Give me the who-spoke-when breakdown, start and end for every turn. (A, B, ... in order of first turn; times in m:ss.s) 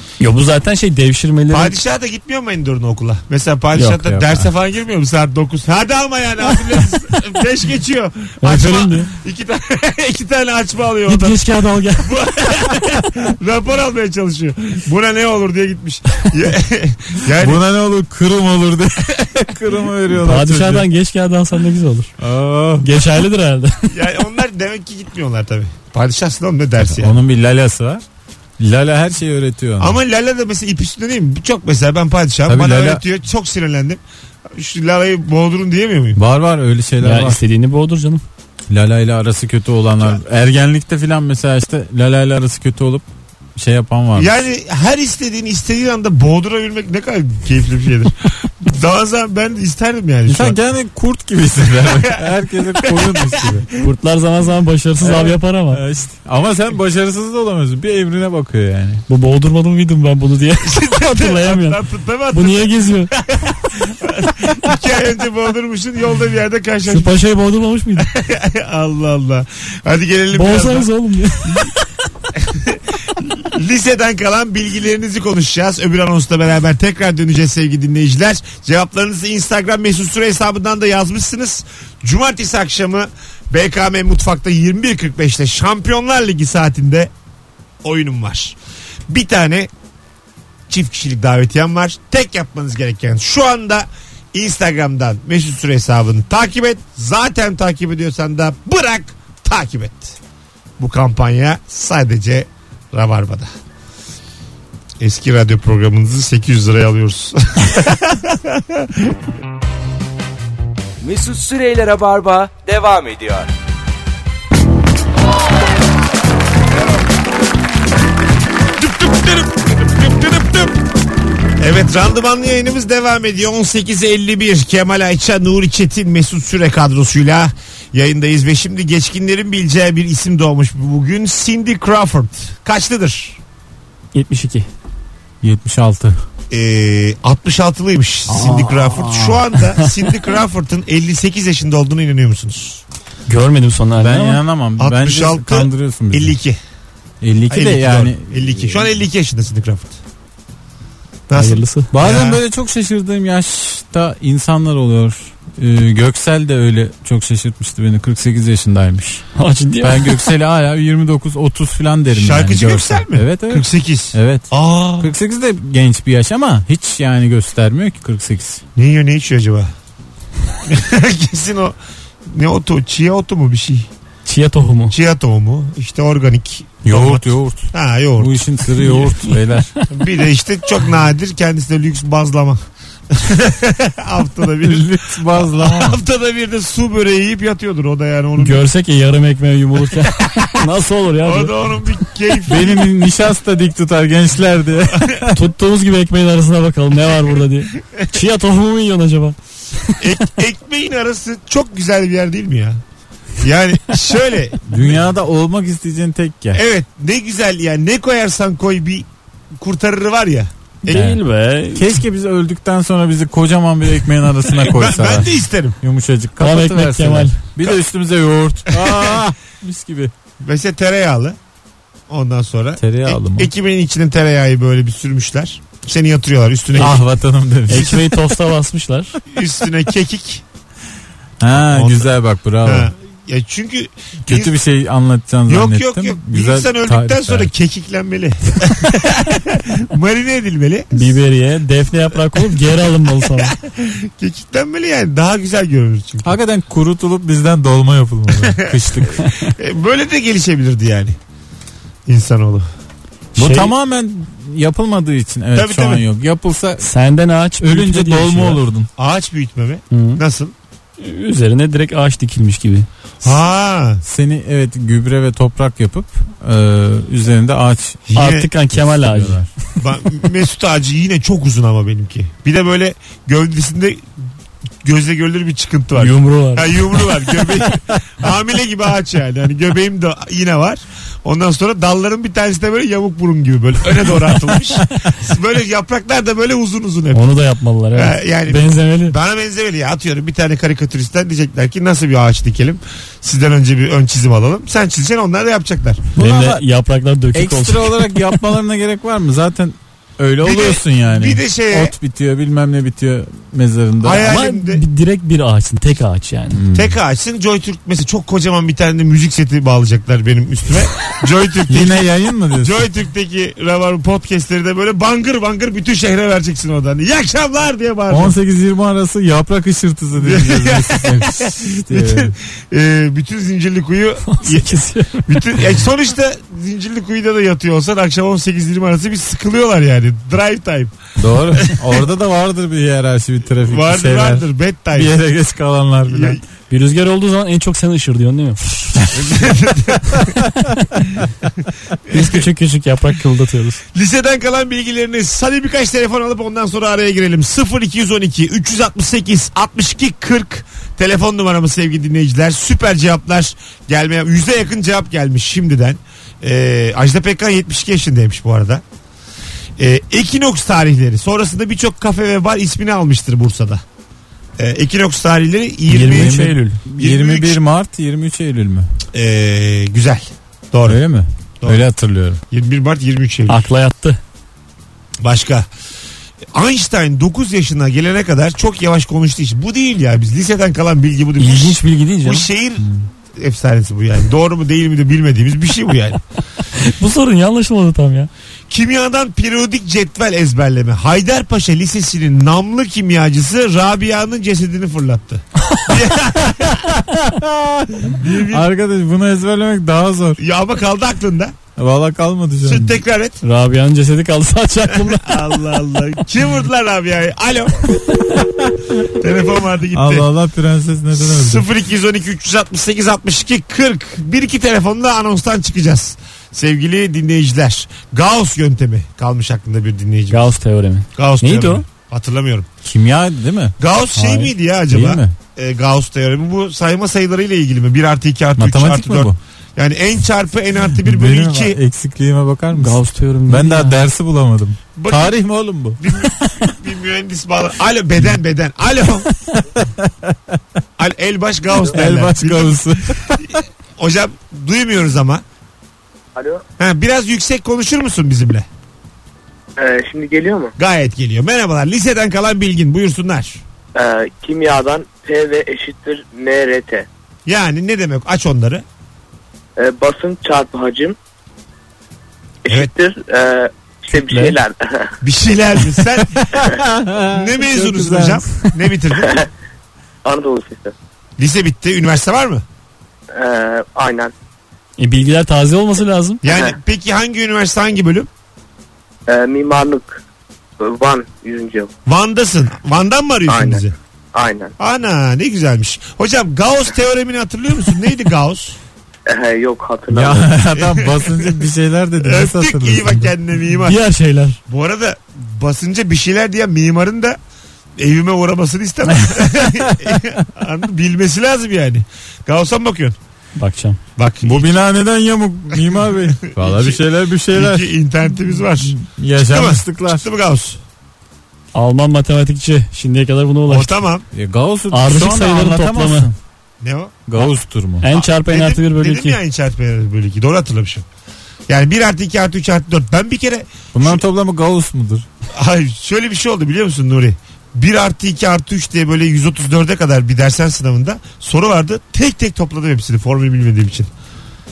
0:00.2-0:01.8 A
0:01.5-0:17.6 B
0:03.8-0:04.5 C
0:08.4-0:09.1 A
0:11.1-0:12.2 A
0:17.4-0:20.9 C
0:20.2-0:22.1 A
0:22.2-0:22.9 C
0:22.8-0:23.9 A
0:23.9-0:27.2 B
0:26.9-0:28.0 C
0:28.6-0:30.0 C
0:29.8-0:36.2 B
0:32.5-0:33.0 C
0:36.2-0:37.4 C
0:37.0-0:38.2 A
0:38.7-0:43.0 C
0:43.6-0:44.4 C
0:44.2-0:50.6 B
0:50.3-0:53.7 C
0:51.8-0:52.2 B
0:52.8-0:53.6 B
0:53.8-0:55.8 A
0:55.0-0:59.0 C
0:59.1-1:01.8 A
1:00.6-1:07.2 B
1:02.3-1:03.1 A
1:06.9-1:08.1 A
1:08.0-1:10.9 B
1:10.3-1:11.7 A
1:12.4-1:27.1 B
1:27.8-1:28.6 B
1:29.1-1:29.7 B
1:30.7-1:40.2 B
1:40.8-1:43.5 B
1:45.0-1:49.1 B
1:51.0-1:53.5 D
1:58.8-2:00.8 B
2:01.6-2:13.4 B
2:14.1-2:14.7 A
2:15.4-2:16.2 C
2:16.5-2:22.8 B
2:18.3-2:19.4 C
2:23.3-2:24.4 A
2:24.0-2:26.4 C
2:24.8-2:26.6 B
2:27.2-2:28.9 C
2:27.5-2:30.0 B
2:31.3-2:32.4 B
2:31.4-2:31.9 A
2:31.9-2:39.2 C
2:39.4-2:40.2 A
2:39.8-2:48.6 C
2:42.2-2:45.1 B
2:48.8-2:49.7 B
2:50.7-2:53.9 B
2:54.2-2:55.0 A
2:54.9-2:58.3 B
2:56.8-2:59.7 C
2:58.8-2:59.3 A
2:59.9-3:08.6 B
3:04.6-3:06.0 C
3:08.4-3:11.5 A
3:10.0-3:10.6 B
3:11.2-3:12.8 B
3:12.5-3:15.4 C
3:15.3-3:20.3 A
3:17.9-3:18.2 B
3:20.0-3:22.8 B
3:23.4-3:25.0 B
3:24.7-3:26.6 C
3:26.5-3:31.0 B
3:30.8-3:32.0 A
3:30.9-3:31.2 C
3:31.8-3:40.1 C
3:34.6-3:35.8 B
3:36.4-3:37.4 A
3:38.7-3:39.2 B
3:40.4-3:41.4 B
3:42.1-3:47.0 B
3:42.8-3:43.5 C
3:46.8-3:48.1 C
3:47.7-3:48.0 B
3:47.7-3:49.2 A
3:49.3-3:50.4 B
3:51.4-3:52.9 C
3:51.6-3:52.1 B
3:52.6-3:54.6 B
3:54.3-3:57.5 C
3:55.5-4:01.1 B
4:00.9-4:03.6 A
4:03.2-4:06.4 B
4:06.2-4:09.3 C
4:08.3-4:11.2 B
4:09.2-4:09.5 A
4:12.1-4:12.6 B
4:13.4-4:13.7 A
4:13.4-4:16.8 C
4:15.6-4:16.0 B
4:16.8-4:18.6 A
4:17.6-4:18.9 C
4:19.0-4:20.5 B
4:19.9-4:20.2 A
4:21.0-4:22.9 A
4:23.2-4:24.0 B
4:24.0-4:29.5 C
4:28.1-4:28.5 B
4:28.2-4:29.4 A
4:29.8-4:34.0 B
4:34.8-4:47.3 B
4:36.0-4:36.8 A
4:47.1-4:49.2 A
4:47.9-4:56.1 B
4:56.2-4:56.6 C
4:56.2-4:58.4 A
4:57.3-5:04.3 C
5:00.4-5:01.9 B
5:04.0-5:04.8 B
5:04.2-5:06.6 A
5:06.5-5:07.0 C
5:06.7-5:12.0 B
5:11.7-5:12.9 C
5:12.6-5:18.4 B
5:18.1-5:22.3 C
5:20.2-5:24.7 B
5:24.3-5:25.6 A
5:25.2-5:31.0 B
5:31.2-5:36.4 C
5:31.5-5:32.0 B
5:33.6-5:35.2 B
5:36.1-5:36.4 B
5:36.7-5:38.8 A
5:39.1-5:40.3 B
5:42.1-5:42.4 B
5:42.1-5:43.8 A
5:43.9-5:58.8 B
5:59.8-6:03.8 B
6:04.6-6:06.4 B
6:05.9-6:06.8 A
6:06.0-6:08.9 C
6:07.0-6:07.6 B
6:09.1-6:11.0 B
6:10.9-6:12.4 C
6:12.5-6:13.7 B
6:13.5-6:14.2 A
6:15.2-6:15.7 B
6:16.5-6:26.2 B
6:21.4-6:22.5 A
6:26.8-6:28.3 A
6:28.7-6:36.9 B
6:36.7-6:40.4 C
6:38.0-6:38.7 B
6:40.4-6:41.6 B
6:41.8-6:42.9 C
6:42.6-6:43.4 B
6:43.4-6:45.4 A
6:44.9-6:47.9 B
6:48.7-6:49.0 C
6:49.1-6:50.3 B
6:49.9-6:51.7 C
6:51.2-7:00.5 B
7:00.3-7:01.8 A
7:01.2-7:02.7 B
7:02.8-7:03.8 C
7:03.8-7:11.8 B
7:04.2-7:04.5 A
7:04.9-7:05.4 C
7:08.6-7:09.4 C
7:11.0-7:16.0 C
7:12.8-7:14.0 A
7:15.0-7:15.4 B
7:16.0-7:19.3 B
7:19.5-7:20.6 C
7:21.0-7:22.9 B
7:21.9-7:23.6 C
7:24.0-7:25.4 B
7:26.4-7:26.6 E
7:26.8-7:28.7 B
7:29.8-7:30.8 E
7:30.8-7:33.6 B
7:34.0-7:37.1 E
7:37.5-7:38.8 B
7:39.8-7:41.2 E
7:42.6-7:45.2 E
7:44.1-7:44.6 A
7:45.2-7:46.6 B
7:46.5-7:48.5 C
7:47.2-7:49.4 B
7:49.2-7:49.5 E
7:50.2-7:50.9 E
7:51.4-7:52.6 B
7:53.3-7:54.3 E
7:55.0-7:56.4 A
7:56.4-7:58.3 B
7:56.5-7:56.8 E
7:59.3-8:00.2 E
8:00.8-8:01.9 E
8:02.1-8:03.9 B
8:03.5-8:04.8 E
8:04.8-8:08.8 B
8:09.3-8:10.6 E
8:10.1-8:13.3 C
8:10.7-8:11.6 B
8:12.2-8:14.0 B
8:13.9-8:14.6 A
8:14.7-8:17.4 B
8:18.0-8:23.2 B
8:19.6-8:20.2 C
8:23.6-8:24.0 A
8:24.2-8:24.8 B
8:24.4-8:27.9 C
8:26.0-8:30.8 B
8:28.8-8:30.2 C
8:31.7-8:33.9 A
8:33.7-8:34.3 B
8:34.3-8:36.4 C
8:34.9-8:36.3 A
8:36.8-8:37.2 B
8:37.3-8:38.0 C
8:38.0-8:39.4 A
8:38.1-8:41.0 B
8:41.7-8:44.2 B
8:43.9-8:45.3 C
8:45.6-8:54.1 B